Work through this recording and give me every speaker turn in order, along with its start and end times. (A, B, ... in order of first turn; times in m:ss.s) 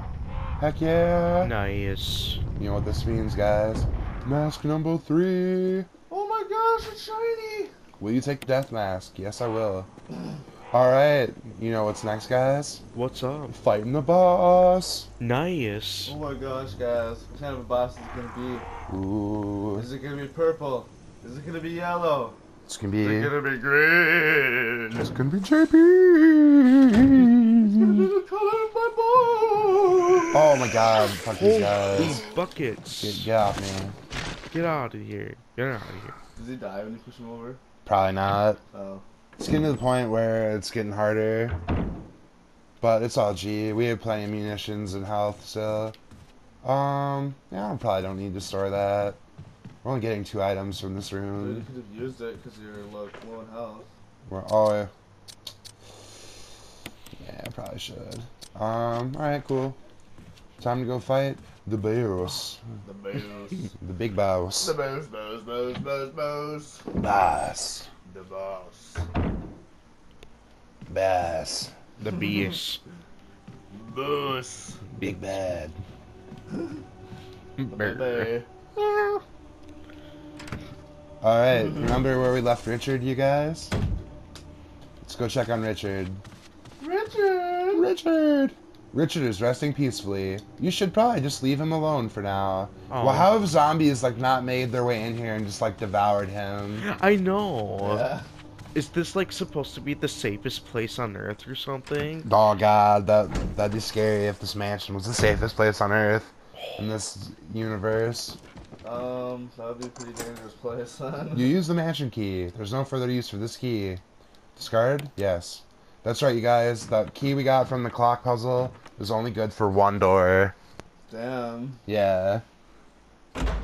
0:00.6-0:01.5 A
0:01.4-0:02.4 B
0:02.6-0:05.9 A
0:06.1-0:07.7 C
0:08.0-0:09.9 A
0:10.7-0:12.8 A
0:12.9-0:13.6 B
0:13.5-0:15.1 A
0:15.2-0:16.1 B
0:16.1-0:18.6 C
0:18.9-0:19.9 A
0:19.7-0:22.4 C
0:22.7-0:23.3 A
0:23.0-0:25.1 C
0:24.9-0:28.0 A
0:27.6-0:30.8 C
0:30.3-0:32.2 A
0:31.3-0:33.3 B
0:33.0-0:34.0 A
0:34.5-0:36.2 B
0:36.4-0:37.6 C
0:37.8-0:38.6 A
0:38.7-0:39.0 C
0:39.4-0:41.6 A
0:42.8-0:46.0 A
0:46.6-0:49.2 A
0:49.8-0:51.6 A
0:51.4-0:53.9 C
0:54.3-0:54.9 A
0:57.2-0:59.8 A
1:00.6-1:02.6 A
1:02.8-1:03.7 C
1:03.8-1:04.7 A
1:04.6-1:06.9 C
1:07.0-1:07.9 A
1:08.0-1:09.1 C
1:10.9-1:11.8 A
1:12.0-1:12.8 B
1:13.7-1:14.8 C
1:14.9-1:15.8 A
1:17.6-1:18.3 B
1:17.7-1:18.5 C
1:18.8-1:19.2 A
1:21.2-1:23.7 A
1:21.6-1:22.0 C
1:25.0-1:26.2 A
1:26.8-1:27.9 C
1:27.7-1:36.8 A
1:32.9-1:33.4 B
1:36.8-1:38.1 B
1:37.8-1:38.3 C
1:38.7-1:42.3 B
1:42.2-1:48.4 A
1:48.8-1:51.5 C
1:51.3-1:54.0 A
1:54.6-2:00.5 A
2:01.1-2:01.8 C
2:01.9-2:02.4 A